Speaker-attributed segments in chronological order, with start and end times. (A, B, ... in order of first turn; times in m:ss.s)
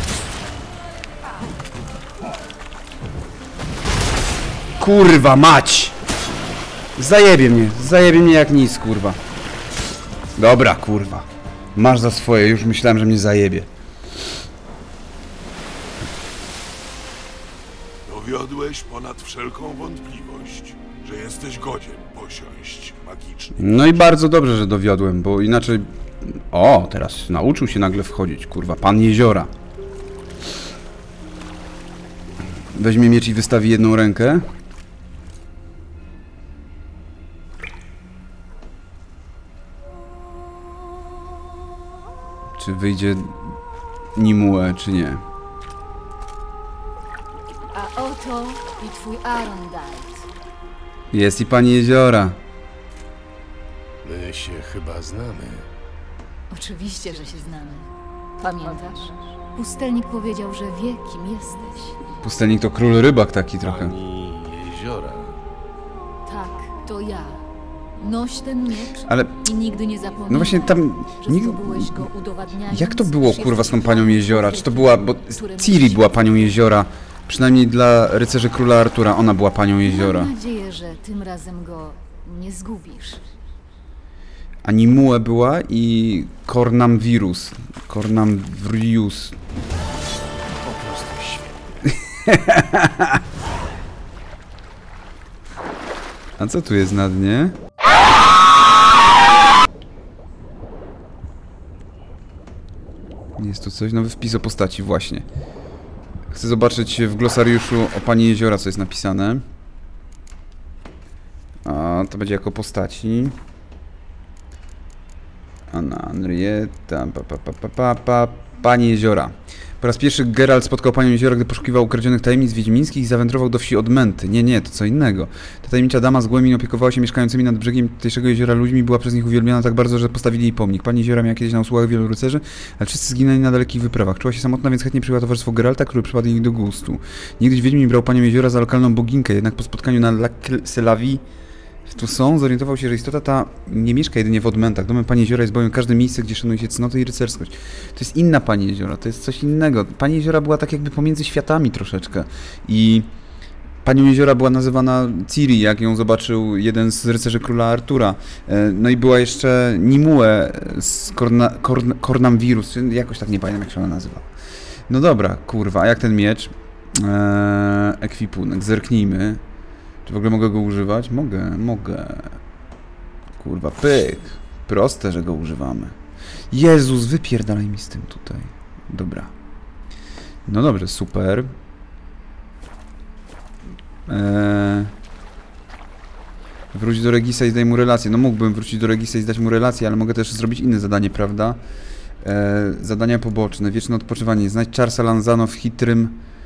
0:04.8-0:06.0 A
0:07.0-0:09.2 A
0:10.4-0:13.7 A
0:18.1-0:24.1 B
0:23.6-0:29.5 A
0:32.7-0:34.5 A
0:42.6-0:43.6 A
0:44.1-0:45.2 A
0:47.7-0:50.3 C
0:51.1-0:52.4 A
0:54.0-0:55.7 D
0:56.5-1:02.0 C
1:02.2-1:03.9 A
1:03.6-1:05.4 D
1:06.2-1:07.4 C
1:08.0-1:16.6 C
1:09.1-1:09.4 A
1:10.3-1:12.1 A
1:12.7-1:20.3 A
1:19.8-1:23.2 C
1:24.6-1:29.4 A
1:30.6-1:31.6 D
1:32.1-1:33.2 A
1:36.4-1:37.6 A
1:43.4-1:45.2 A
1:46.3-1:49.4 A
1:51.6-1:53.4 A
1:55.7-2:21.2 A
2:21.8-2:33.1 A
2:33.8-2:44.3 A
2:44.9-2:49.4 A
2:50.0-2:52.4 A
2:53.4-2:56.0 A
2:56.5-2:59.3 A
3:00.4-3:01.5 A
3:04.1-3:04.9 A
3:06.7-3:11.6 A
3:12.2-3:16.2 A